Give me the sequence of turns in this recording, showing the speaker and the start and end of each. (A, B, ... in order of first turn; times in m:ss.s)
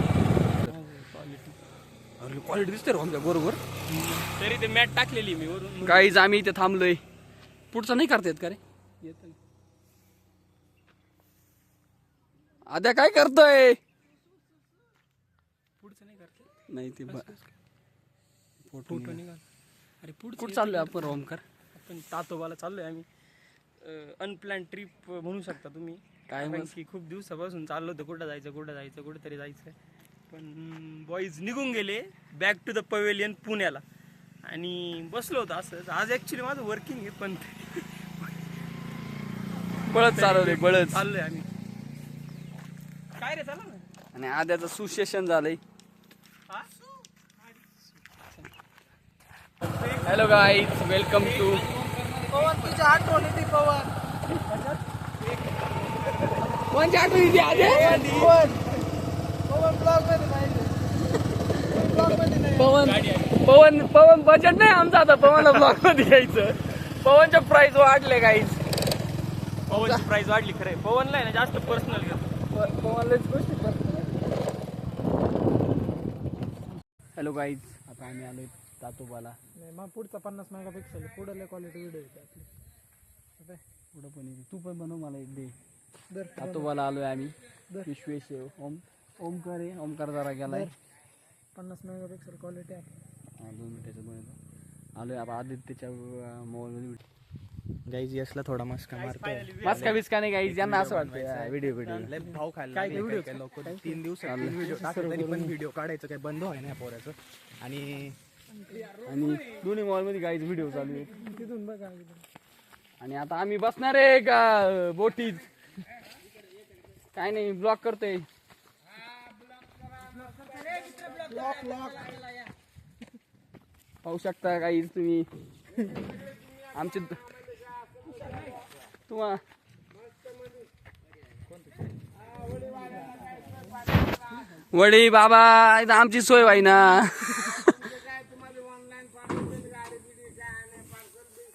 0:00.6-0:01.6 A
0:02.2-0:03.6 B
0:04.1-0:06.2 A
0:05.8-0:07.0 B
0:07.7-0:08.6 B
0:09.0-0:09.4 A
0:12.7-0:13.8 B
0:15.8-0:16.5 A
0:16.7-0:17.3 B
0:17.1-0:17.4 A
0:18.6-0:19.2 B
0:18.9-0:19.4 A
0:20.0-0:21.1 A
0:20.4-0:21.4 B
0:21.7-0:23.1 A
0:23.8-0:29.7 A
0:26.3-0:26.7 B
0:30.3-0:33.8 A
0:34.4-0:38.3 A
0:39.9-0:41.0 B
0:40.0-0:41.4 A
0:43.2-0:43.8 A
0:44.1-0:45.6 B
0:50.0-0:51.7 B
0:51.2-0:52.4 A
0:52.3-0:53.8 C
0:52.4-0:53.4 D
0:54.5-0:54.8 A
0:56.2-0:56.6 A
0:56.7-0:58.0 B
0:57.4-0:58.3 A
0:57.7-0:58.7 C
0:57.8-0:58.5 D
0:59.5-1:00.7 C
1:01.7-1:02.6 C
1:01.8-1:02.6 D
1:02.5-1:08.6 B
1:02.8-1:03.4 A
1:09.7-1:12.3 A
1:09.8-1:10.0 B
1:12.5-1:14.0 B
1:17.2-1:19.4 B
1:19.6-1:22.5 C
1:23.9-1:25.5 B
1:26.1-1:26.7 C
1:26.4-1:30.7 B
1:30.5-1:30.7 C
1:31.5-1:32.9 C
1:33.4-1:34.4 B
1:35.0-1:37.0 B
1:37.8-1:41.5 D
1:38.9-1:40.0 A
1:39.6-1:42.1 B
1:41.8-1:42.1 A
1:42.1-1:48.2 D
1:42.7-1:43.4 A
1:43.6-1:44.0 C
1:44.2-1:45.5 B
1:48.5-1:48.9 C
1:49.0-1:51.3 B
1:51.2-1:52.2 C
1:53.0-1:55.5 B
1:57.1-1:58.3 B
2:01.2-2:02.1 C
2:04.0-2:05.3 B
2:06.7-2:07.2 B
2:09.1-2:09.4 B
2:14.7-2:17.8 B